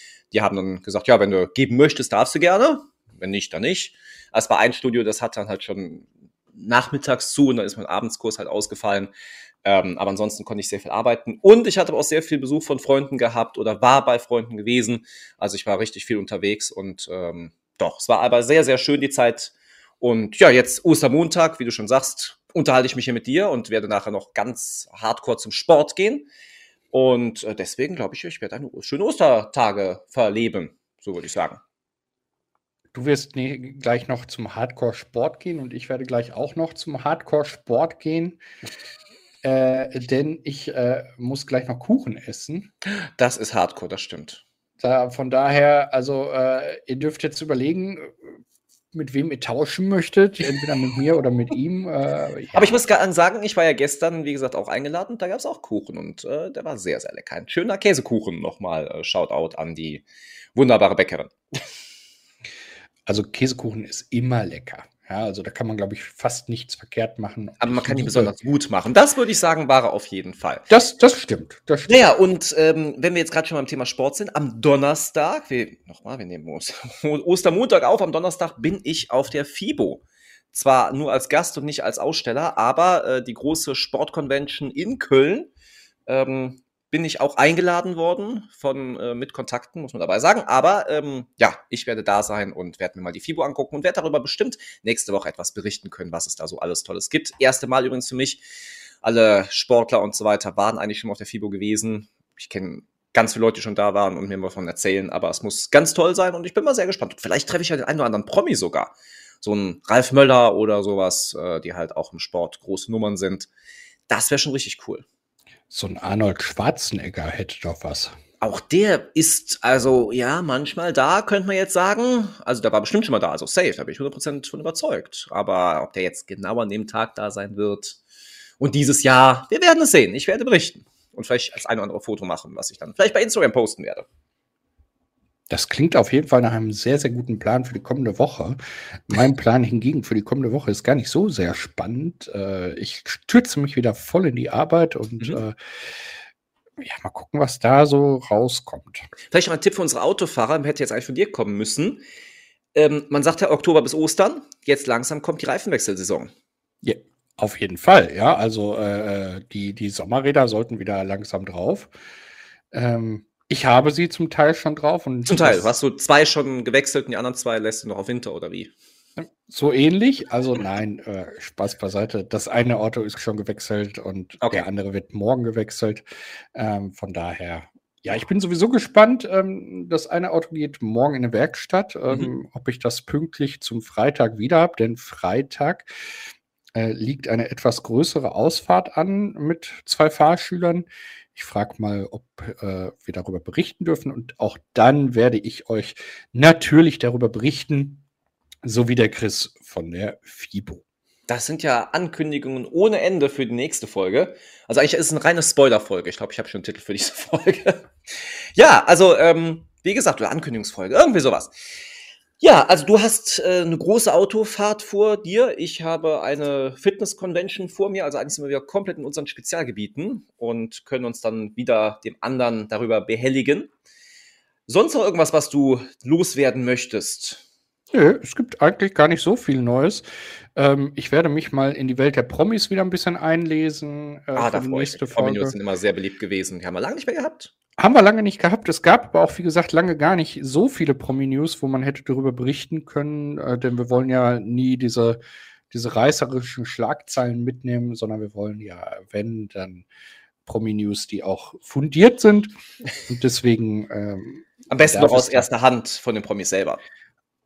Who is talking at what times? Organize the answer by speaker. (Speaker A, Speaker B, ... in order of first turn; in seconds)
Speaker A: 0.3-9.1, 9.6-26.3, 26.9-31.6, 43.2-44.4, 52.5-61.6, 67.6-70.7, 71.9-85.5, 86.1-98.4, 99.0-113.5, 114.1-115.0, 118.4-128.0, 128.6-134.1, 149.3-152.0, 152.7-156.3, 165.3-168.7, 201.3-211.5, 212.4-223.7, 224.7-227.4, 234.3-237.5, 254.7-256.8
Speaker B: 32.9-38.4, 39.4-42.7, 44.8-48.3, 48.9-52.8, 63.1-68.3, 70.7-72.1, 115.7-118.1, 135.5-146.0, 146.8-149.1, 156.8-161.9, 162.7-165.7, 169.2-185.9, 186.7-198.0, 198.6-200.8, 227.9-230.0, 230.5-235.5, 237.8-245.2, 245.7-249.9, 250.4-252.5, 253.1-255.5